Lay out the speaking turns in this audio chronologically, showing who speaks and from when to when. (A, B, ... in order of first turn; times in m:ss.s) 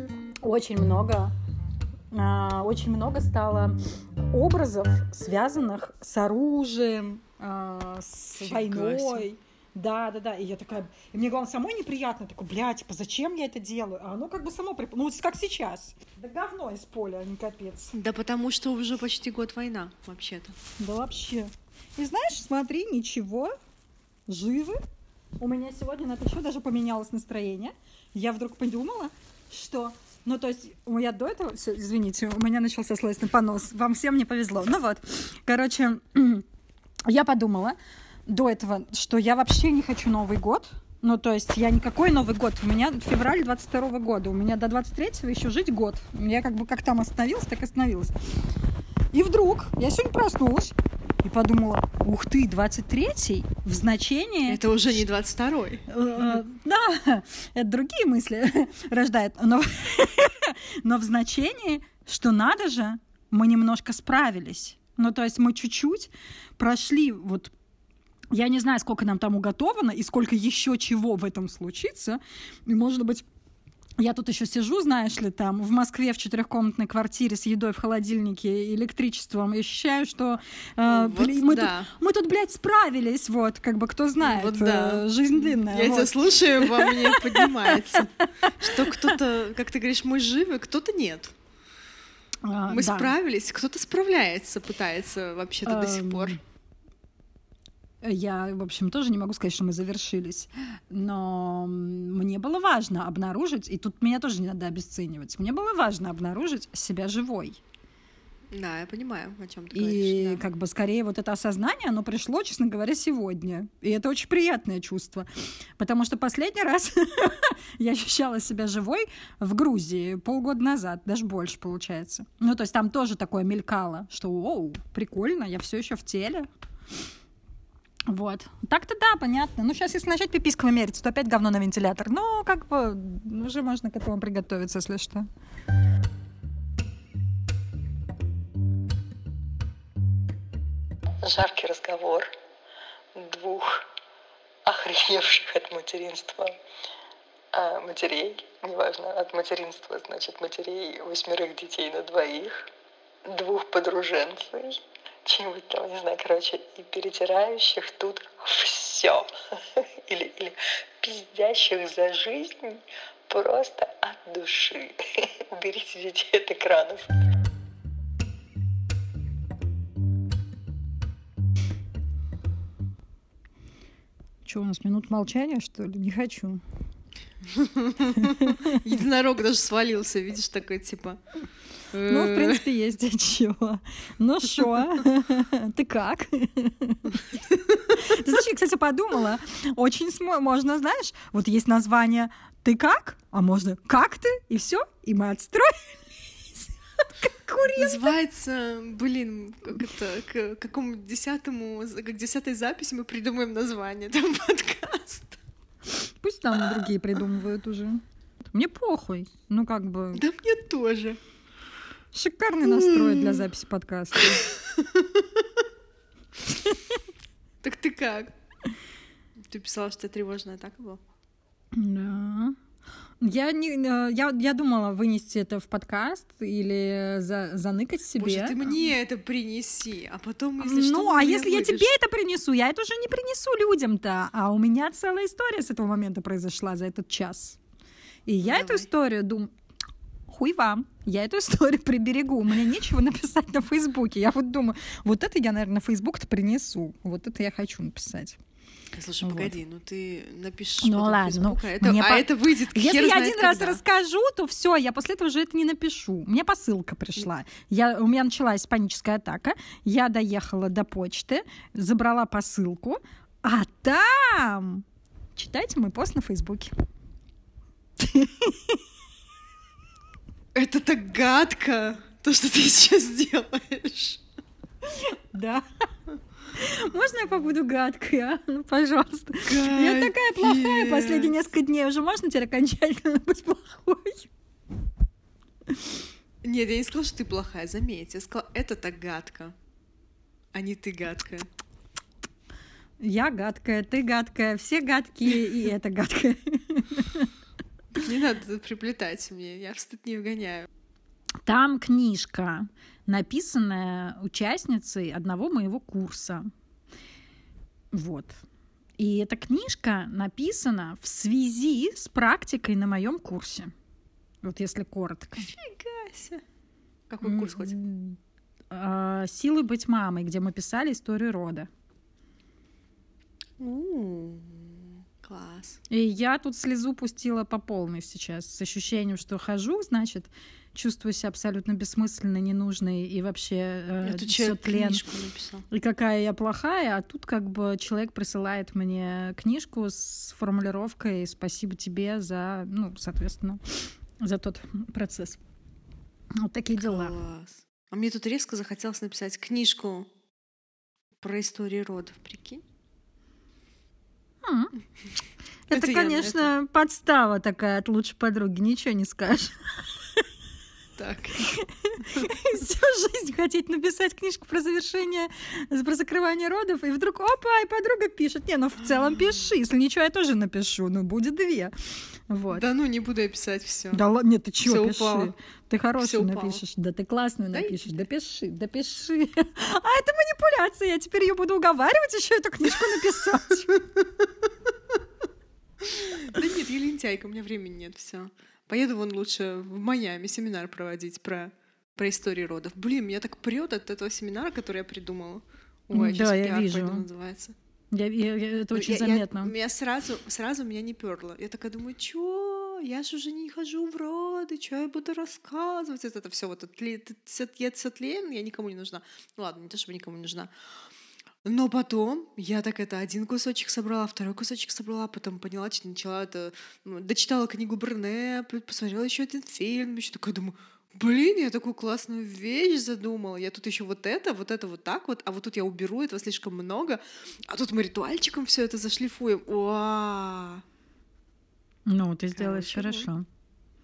0:00.4-0:01.3 A
0:02.1-0:03.8 A
0:04.3-0:18.0 A
0:08.4-0:09.2 B
0:17.9-0:20.6 B
0:20.8-0:23.5 A
0:24.3-0:24.8 A
0:25.4-0:36.4 A
0:37.1-0:48.1 A
0:49.1-0:54.7 A
0:54.4-0:55.8 B
0:55.9-1:07.5 A
1:08.3-1:13.2 A
1:14.0-1:29.2 A
1:20.8-1:21.9 B
1:24.2-1:31.3 B
1:32.4-1:33.1 A
1:32.7-1:36.4 B
1:35.6-1:36.4 A
1:38.0-1:47.6 A
1:48.5-1:50.4 B
1:49.7-2:06.5 A
2:08.1-2:15.3 A
2:21.2-2:22.3 C
2:23.1-2:23.8 C
2:24.6-2:26.5 C
2:27.5-2:32.6 C
2:33.2-2:39.3 C
2:40.0-2:47.1 C
2:54.4-2:56.6 A
2:57.4-3:01.2 B
2:58.2-2:58.8 A
3:01.9-3:02.6 B
3:02.0-3:18.1 A
3:17.8-3:25.4 B
3:25.9-3:30.2 A
3:26.6-3:26.8 B
3:30.1-3:31.2 B
3:32.1-3:34.5 A
3:32.6-3:33.5 B
3:34.2-3:35.6 B
3:36.5-3:36.8 A
3:37.6-3:38.3 B
3:39.4-3:41.0 B
3:41.7-3:42.6 A
3:43.2-3:48.8 A
3:48.2-3:51.9 B
3:50.6-3:57.6 A
3:58.3-3:59.5 A
3:58.4-3:58.9 B
4:00.3-4:08.4 A
4:08.9-4:13.8 B
4:09.2-4:09.5 A
4:10.8-4:26.7 A
4:28.0-4:28.8 A
4:30.5-4:34.2 B
4:34.9-4:35.6 A
4:36.5-4:44.3 A
4:39.5-4:41.4 B
4:46.4-4:49.5 B
4:50.5-4:51.5 B
4:53.0-4:57.3 A
4:58.0-5:00.7 B
5:01.4-5:06.5 A
5:07.9-5:08.4 A
5:09.0-5:13.7 A
5:14.4-5:15.5 A
5:15.4-5:16.4 B
5:17.1-5:17.8 B
5:17.2-5:18.2 A
5:18.7-5:21.7 A
5:23.6-5:25.8 B
5:25.9-5:35.0 A
5:34.0-5:35.6 B
5:35.7-5:45.4 A
5:46.4-5:47.1 A
5:46.8-5:50.1 B
5:51.2-5:52.6 B
5:54.4-5:54.7 A
5:55.7-5:59.6 A
5:55.7-5:56.5 B
6:01.0-6:01.5 B
6:01.4-6:12.6 A
6:12.5-6:14.0 B
6:13.9-6:23.8 A
6:14.6-6:15.3 B
6:16.0-6:16.6 B
6:17.5-6:18.0 B
6:25.8-6:37.5 B
6:35.9-6:37.0 A
6:37.9-6:39.5 A
6:38.7-6:50.5 B
6:51.4-7:10.6 B
7:11.9-7:13.2 A
7:12.3-7:13.1 B